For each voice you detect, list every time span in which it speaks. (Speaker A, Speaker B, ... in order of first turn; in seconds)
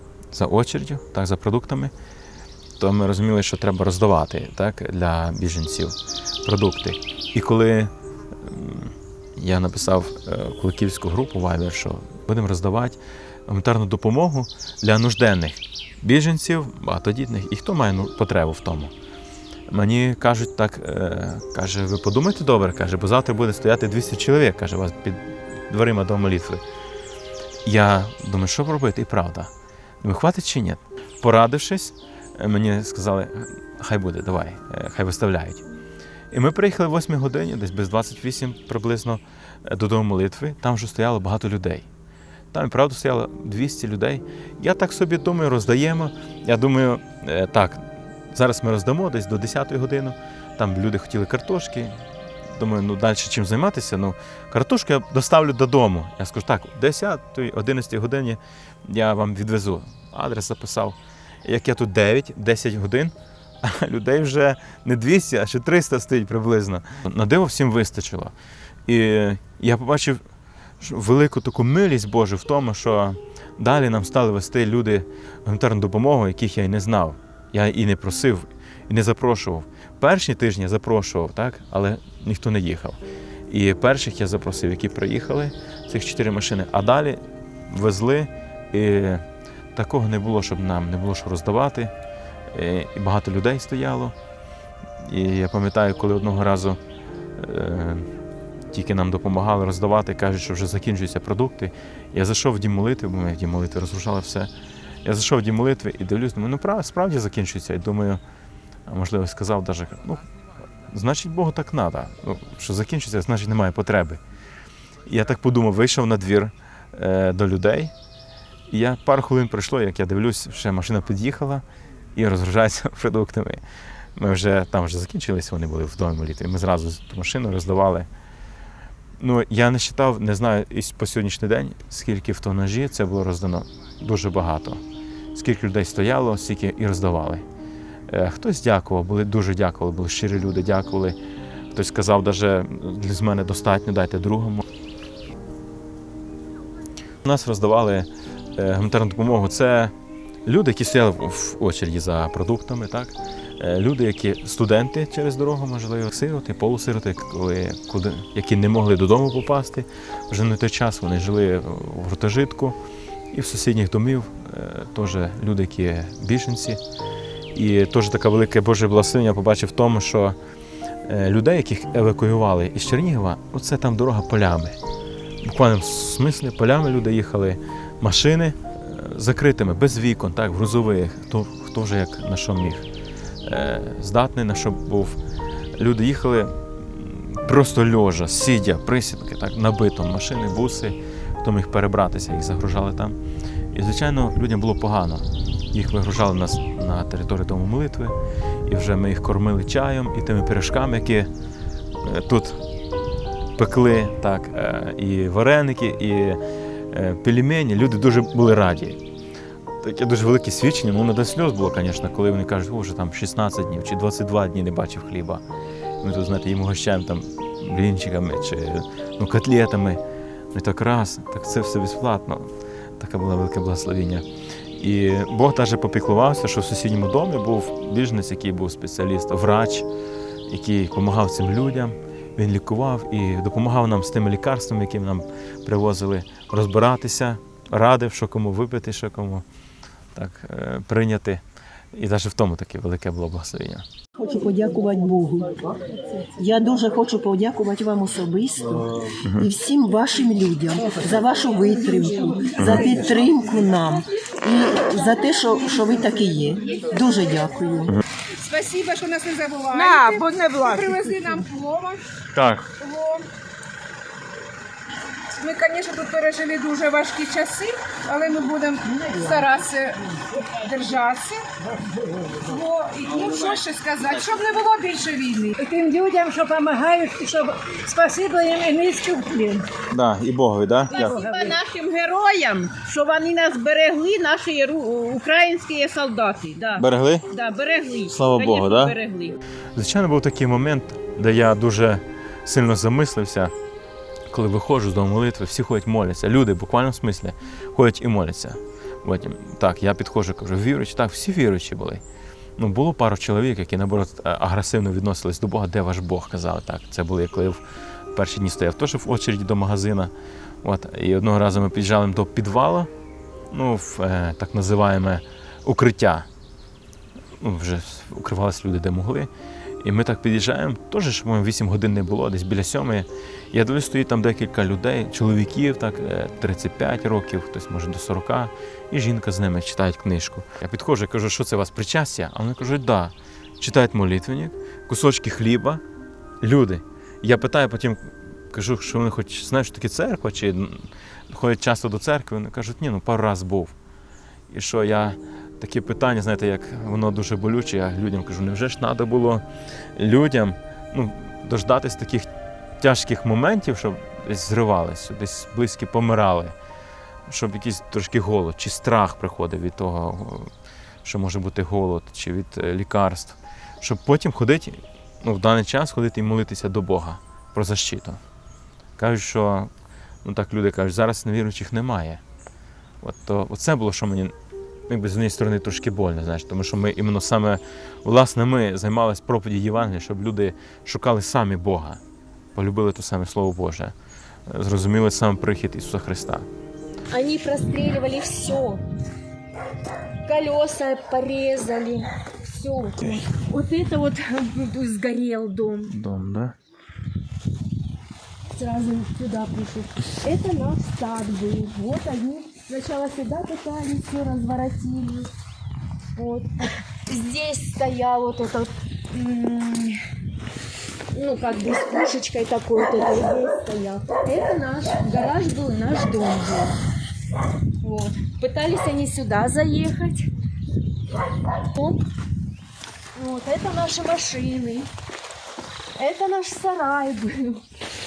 Speaker A: 0.3-1.9, 2.8-18.9, 19.7-26.6, 27.6-29.5, 30.0-35.6, 36.3-41.9, 42.5-52.0, 52.5-68.3, 68.9-70.2, 70.8-91.9, 92.5-94.2, 95.0-96.8, 97.4-98.1, 98.7-104.5, 105.0-108.2, 108.9-110.3, 110.8-114.2, 115.0-117.9, 118.7-121.6, 122.2-123.6, 124.2-128.1, 129.2-134.8, 135.3-137.4, 138.1-141.2, 141.7-144.7, 147.2-149.9, 150.5-162.8, 163.3-166.8, 167.5-170.4, 171.1-174.8, 175.4-182.9, 183.4-185.2, 185.8-193.2, 193.7-201.3, 202.0-202.6, 203.6-206.4, 206.9-209.0, 209.8-215.4, 216.0-220.0, 220.5-224.3, 224.8-229.9, 230.5-239.5, 240.2-241.4, 241.9-243.9, 252.6-252.9, 262.3-262.7, 279.9-281.2, 286.8-287.3, 288.1-289.0, 289.8-293.5, 294.3-302.0, 302.6-307.6, 308.1-310.1, 310.6-312.9, 313.5-316.3, 317.4-319.3, 319.8-335.8, 336.4-343.8, 344.5-349.4, 350.0-352.3, 352.8-356.6, 357.3-360.5, 361.0-368.2, 369.0-369.7, 370.2-372.2, 373.0-374.3, 374.9-382.0, 382.6-383.9, 384.5-386.5, 395.9-396.6
Speaker B: 244.2-245.6, 246.2-257.9
Speaker C: 258.4-262.0, 262.8-263.2, 265.3-270.0, 270.6-271.4, 272.5-275.6
Speaker D: 259.8-260.8, 281.0-286.8, 287.3-289.2
Speaker E: 275.7-279.7, 281.1-281.6
Speaker F: 387.1-388.8, 390.2-395.9, 398.6-405.3, 406.1-410.0, 411.1-416.8, 417.8-420.3, 421.7-422.0, 423.2-424.9, 426.0-427.6